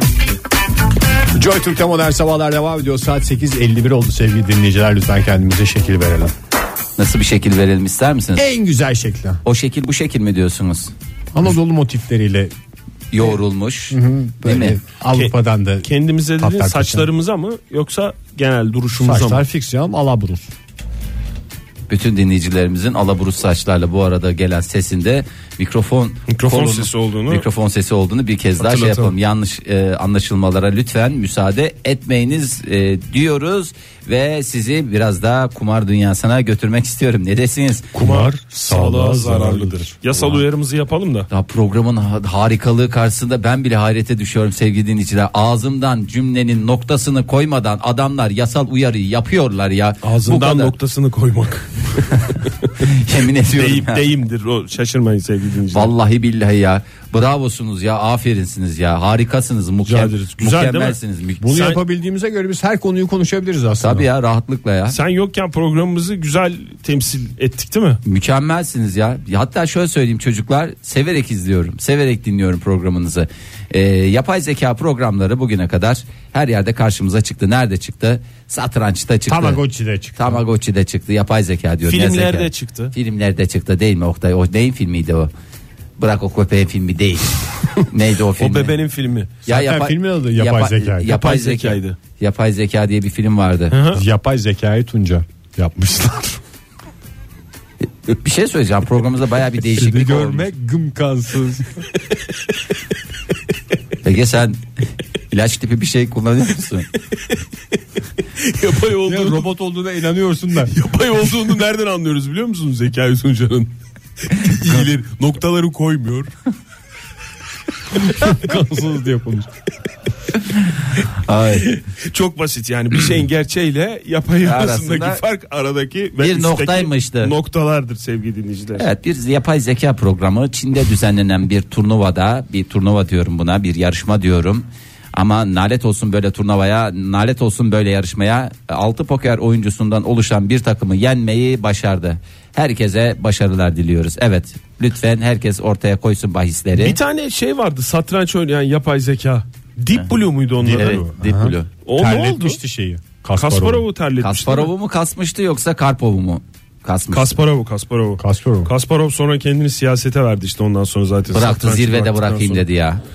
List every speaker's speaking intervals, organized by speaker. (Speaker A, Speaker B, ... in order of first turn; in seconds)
Speaker A: 1.3-6.3, 8.4-9.4, 11.3-12.5, 13.9-15.9, 16.4-17.1, 19.0-20.5, 38.0-40.4, 61.4-64.1, 79.3-80.4, 89.5-91.1, 93.9-96.4, 99.8-101.8, 109.1-110.7, 118.2-119.5, 150.6-153.9, 158.2-158.7
Speaker B: 7.0-8.4, 9.4-10.9, 13.1-14.8, 21.9-37.9, 41.3-50.7, 52.8-54.0, 55.7-61.6, 63.8-65.0, 68.0-79.6, 80.2-85.3, 86.0-88.7, 89.5-93.8, 97.8-100.5, 104.0-104.6, 105.3-106.9, 121.0-121.7, 124.4-125.2, 126.2-127.3, 128.8-147.0, 150.7-151.7, 154.2-157.3, 161.3-163.0
Speaker C: 15.1-19.4, 26.3-27.4, 28.7-29.0, 38.0-41.3, 50.0-52.7, 53.5-55.9, 59.9-61.0, 61.5-61.8, 64.9-68.0, 81.9-82.9, 88.4-89.3, 91.1-92.0, 93.7-94.0, 108.4-109.5, 110.7-113.7, 114.3-116.3, 118.3-118.7, 121.7-128.8, 146.8-151.0, 151.8-152.6, 153.4-154.7, 157.1-162.6